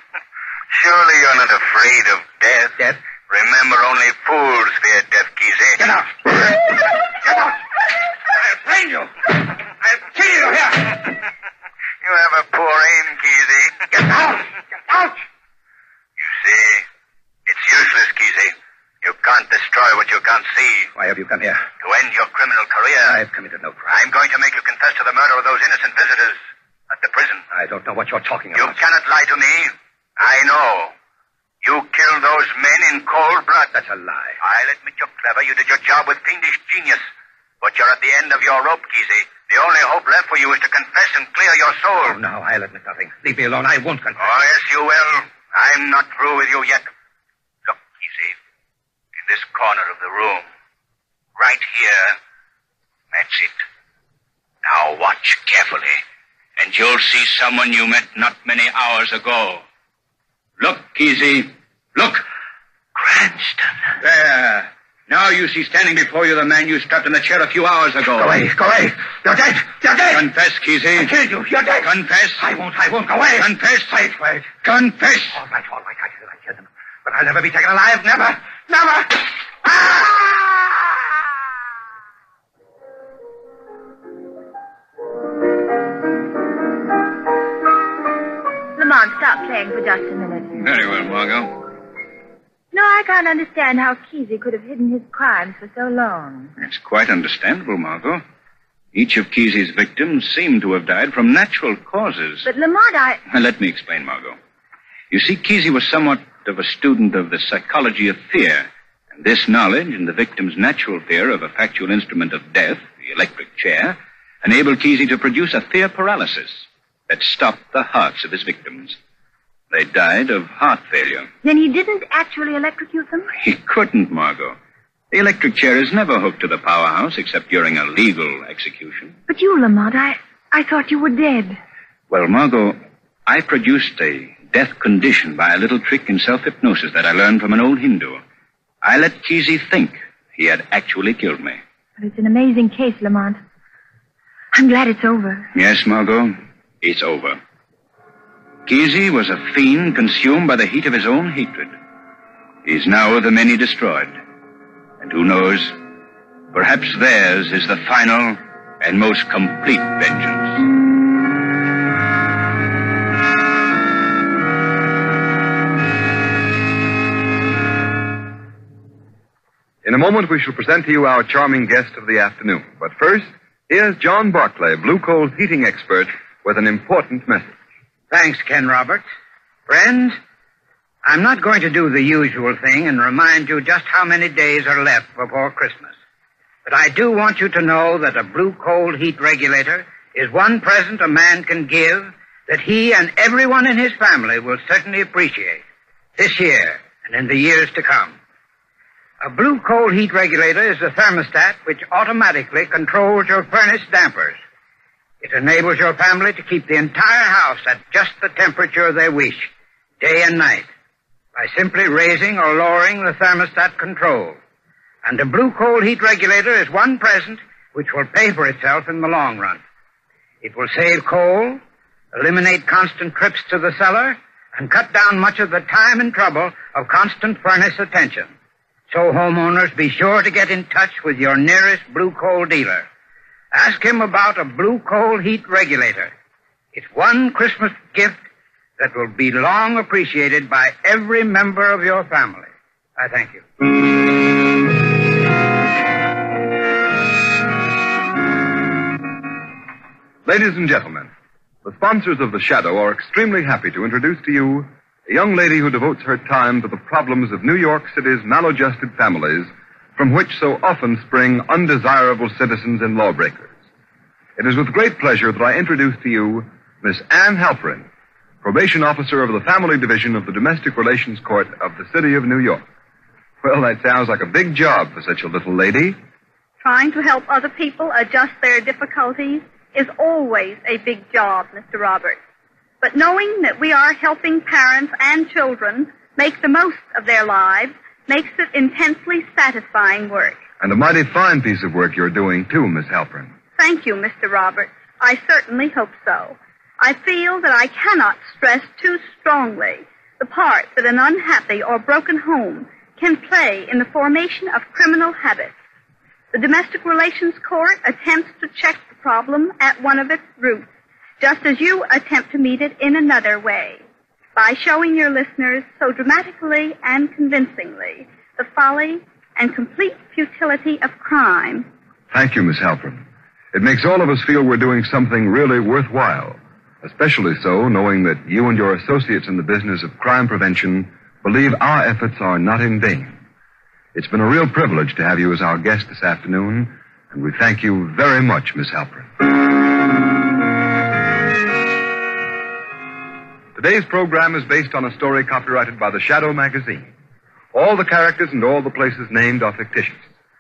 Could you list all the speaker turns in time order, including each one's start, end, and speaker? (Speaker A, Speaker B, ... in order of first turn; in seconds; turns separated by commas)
Speaker A: 0.7-2.8, Speaker A: 3.3-5.9, Speaker A: 12.0-13.8, Speaker B: 14.1-14.4, Speaker A: 16.2-16.8, Speaker A: 17.5-20.9, Speaker B: 20.9-21.7, Speaker A: 21.8-23.1, Speaker B: 23.1-24.0, Speaker A: 23.9-26.4, Speaker A: 26.9-27.4, Speaker B: 27.5-28.8, Speaker A: 28.6-30.9, Speaker A: 31.6-33.7, Speaker B: 33.7-34.4, Speaker A: 34.4-37.0, Speaker A: 37.6-42.1, Speaker B: 42.0-44.4, Speaker A: 44.4-46.9, Speaker A: 49.5-50.4, Speaker C: 55.0-55.9, Speaker C: 56.6-59.6, Speaker C: 60.6-62.2, Speaker B: 63.0-63.9, Speaker C: 64.0-68.4, Speaker B: 68.2-70.2, Speaker C: 70.1-71.1, Speaker B: 71.0-74.5, Speaker C: 71.8-72.5, Speaker C: 74.6-75.4, Speaker B: 75.3-80.9, Speaker D: 88.8-90.5, Speaker C: 90.5-91.6, Speaker D: 92.7-96.5, Speaker C: 96.6-98.2, Speaker C: 98.9-102.5, Speaker D: 102.4-103.2, Speaker C: 103.3-104.4, Speaker C: 105.1-119.0, Speaker C: 119.7-121.3, Speaker D: 121.4-123.3, Speaker C: 123.3-124.6, Speaker C: 125.1-129.2, Speaker D: 129.3-131.6, Speaker C: 132.1-138.2, Speaker C: 138.8-141.6, Speaker D: 142.0-143.4, Speaker D: 144.5-145.5, Speaker C: 145.5-147.4, Speaker C: 148.7-151.7, Speaker C: 152.7-154.2, Speaker C: 155.0-155.8, Speaker C: 156.5-160.6, Speaker E: 169.8-177.6, Speaker F: 178.1-179.0, Speaker F: 179.7-180.1, Speaker F: 181.1-185.9, Speaker F: 186.7-195.6, Speaker F: 196.2-198.2, Speaker F: 199.2-204.4, Speaker F: 205.2-209.5, Speaker F: 210.0-210.7, Speaker F: 211.4-214.4, Speaker F: 215.1-219.6, Speaker F: 220.4-221.6, Speaker F: 222.2-228.3, Speaker F: 228.9-232.8, Speaker F: 233.6-236.1, Speaker F: 236.8-238.2, Speaker F: 238.8-242.5, Speaker F: 243.0-243.4, Speaker E: 250.2-251.1, Speaker E: 251.6-263.6, Speaker E: 264.4-267.9, Speaker E: 268.4-272.6, Speaker E: 273.4-276.0, Speaker G: 276.6-282.2, Speaker G: 282.8-290.4, Speaker E: 290.6-293.3, Speaker G: 293.6-305.5, Speaker G: 306.3-310.7, Speaker G: 311.2-313.8, Speaker G: 314.4-321.7, Speaker E: 322.1-333.2, Speaker E: 333.9-339.1, Speaker E: 343.6-346.9, Speaker E: 347.5-350.0